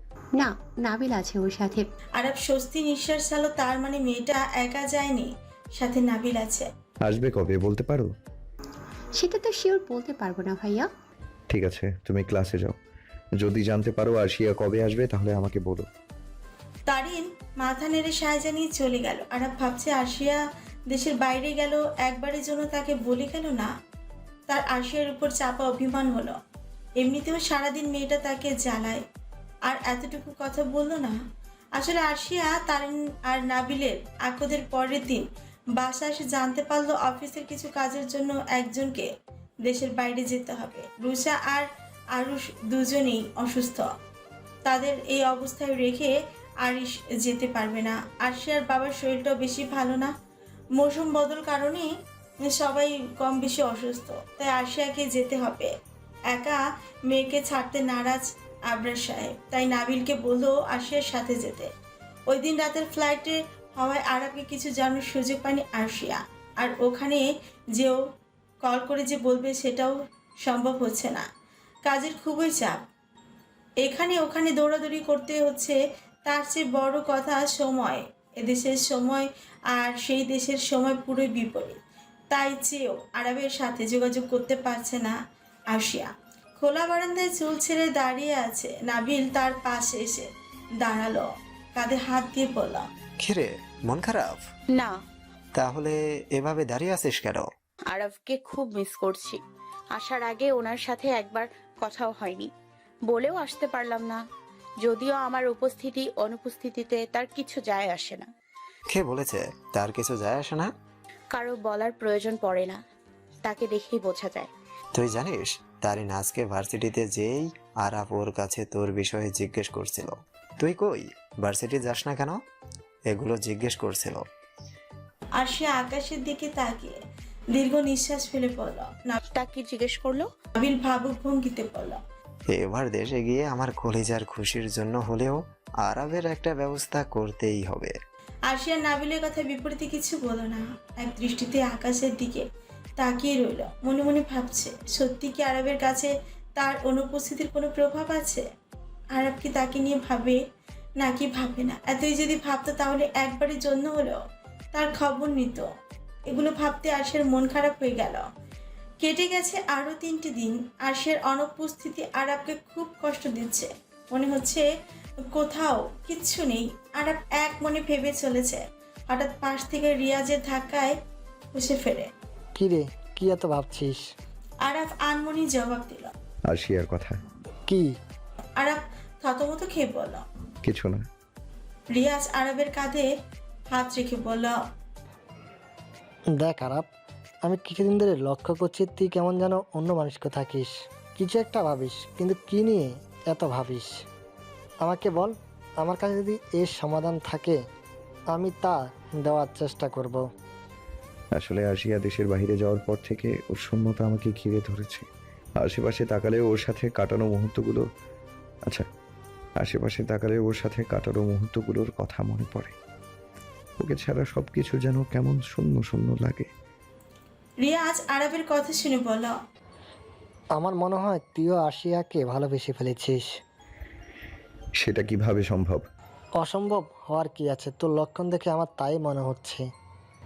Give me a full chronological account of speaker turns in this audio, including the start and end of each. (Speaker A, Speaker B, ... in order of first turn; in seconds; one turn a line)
Speaker A: 0.4-1.8
Speaker B: 2.1-6.7
Speaker C: 7.0-8.1
Speaker A: 9.2-10.9
Speaker C: 11.5-12.8
Speaker C: 13.4-15.9
Speaker B: 16.9-23.7
Speaker B: 24.5-26.3
Speaker B: 27.0-29.0
Speaker B: 29.6-31.2
Speaker B: 31.7-39.1
Speaker B: 39.6-43.9
Speaker B: 44.6-50.1
Speaker B: 50.7-51.9
Speaker B: 52.4-55.7
Speaker B: 56.3-61.7
Speaker B: 62.3-68.0
Speaker B: 68.6-71.2
Speaker B: 71.8-72.8
Speaker B: 73.8-81.8
Speaker B: 82.3-85.1
Speaker B: 85.7-90.3
Speaker B: 90.8-92.8
Speaker D: 93.2-94.4
Speaker D: 95.5-97.5
Speaker E: 97.9-99.4
Speaker E: 99.9-102.5
Speaker E: 103.1-104.2
Speaker E: 104.8-108.3
Speaker D: 108.9-110.7
Speaker E: 111.3-112.8
Speaker E: 113.4-114.5
Speaker D: 114.9-122.4
Speaker D: 123.1-124.2
Speaker B: 125.3-127.0
Speaker B: 127.5-129.2
Speaker E: 129.3-130.3
Speaker B: 130.6-132.0
Speaker D: 132.5-137.9
Speaker B: 138.5-142.4
Speaker B: 143.0-148.4
Speaker B: 149.1-150.4
Speaker B: 151.0-154.2
Speaker B: 154.7-155.7
Speaker B: 156.3-158.2
Speaker B: 159.0-164.7
Speaker B: 165.3-170.9
Speaker B: 171.5-172.1
Speaker F: 172.6-174.0
Speaker B: 174.6-176.1
Speaker C: 176.5-177.2
Speaker F: 177.7-177.9
Speaker B: 178.6-180.2
Speaker C: 180.6-181.0
Speaker B: 181.9-183.1
Speaker B: 183.7-184.6
Speaker F: 186.3-186.8
Speaker F: 187.4-194.0
Speaker F: 194.8-197.6
Speaker F: 198.3-200.3
Speaker C: 201.3-205.1
Speaker C: 205.6-207.8
Speaker C: 209.6-212.7
Speaker C: 213.8-216.5
Speaker B: 217.6-219.3
Speaker F: 220.5-223.3
Speaker C: 224.8-225.8
Speaker F: 226.4-229.7